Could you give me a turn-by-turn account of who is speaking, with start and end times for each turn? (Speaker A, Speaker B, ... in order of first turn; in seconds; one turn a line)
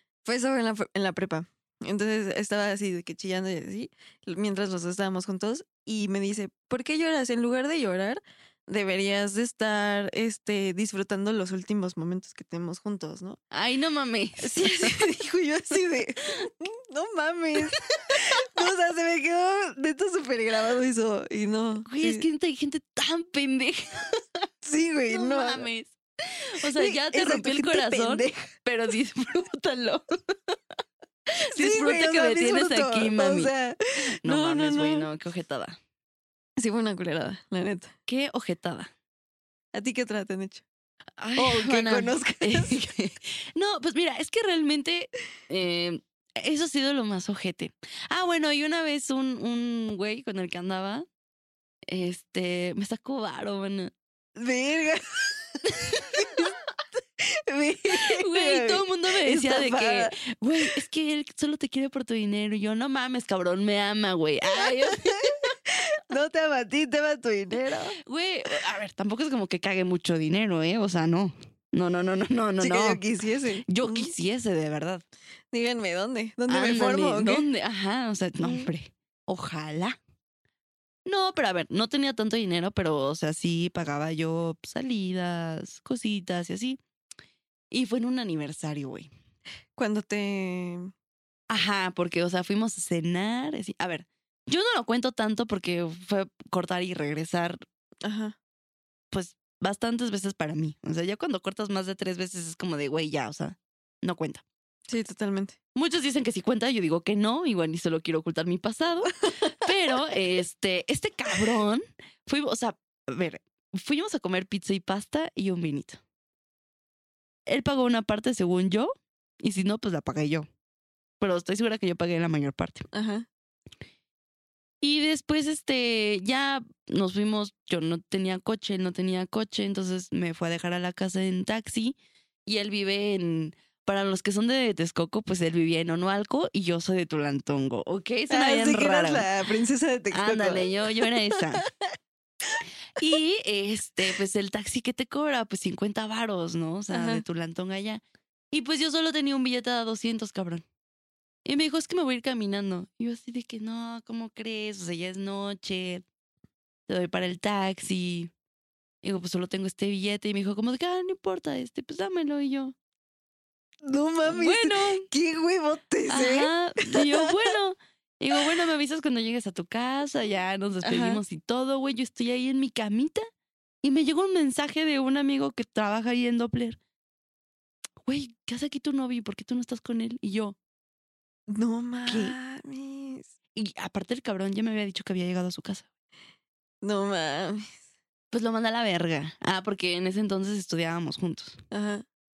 Speaker A: 0.2-13.4
Speaker B: 13.5-14.9
Speaker A: 14.4-22.2
Speaker B: 21.9-24.4
Speaker A: 24.6-25.7
Speaker B: 25.1-30.6
Speaker A: 26.8-28.5
Speaker B: 31.4-33.5
Speaker A: 31.6-35.1
Speaker B: 34.2-35.8
Speaker A: 36.6-37.9
Speaker B: 38.1-38.9
Speaker A: 39.7-40.6
Speaker B: 41.2-51.1
Speaker A: 41.4-42.8
Speaker B: 51.9-53.9
Speaker A: 54.4-56.5
Speaker B: 56.1-56.4
Speaker A: 57.2-60.1
Speaker B: 58.0-65.5
Speaker A: 64.9-68.0
Speaker B: 67.5-73.0
Speaker A: 72.6-74.1
Speaker B: 73.7-75.0
Speaker A: 75.5-77.5
Speaker B: 76.5-80.0
Speaker A: 78.4-78.7
Speaker B: 81.1-86.8
Speaker B: 87.7-89.1
Speaker A: 89.8-90.9
Speaker B: 91.5-97.6
Speaker A: 98.0-98.3
Speaker B: 99.1-104.4
Speaker A: 104.9-105.6
Speaker B: 105.8-116.0
Speaker B: 117.5-118.9
Speaker B: 119.4-120.5
Speaker B: 121.2-122.8
Speaker A: 122.9-123.3
Speaker B: 124.8-139.3
Speaker A: 138.3-140.7
Speaker B: 140.1-141.7
Speaker B: 143.0-150.7
Speaker A: 146.9-147.2
Speaker B: 151.4-156.0
Speaker B: 156.9-158.3
Speaker B: 159.0-162.8
Speaker A: 163.8-167.3
Speaker B: 164.2-165.1
Speaker B: 166.1-173.2
Speaker A: 170.8-171.2
Speaker B: 173.8-176.8
Speaker B: 178.0-180.6
Speaker A: 181.5-183.3
Speaker B: 182.1-182.4
Speaker B: 183.6-185.9
Speaker A: 186.8-187.8
Speaker B: 188.3-191.6
Speaker A: 191.7-192.1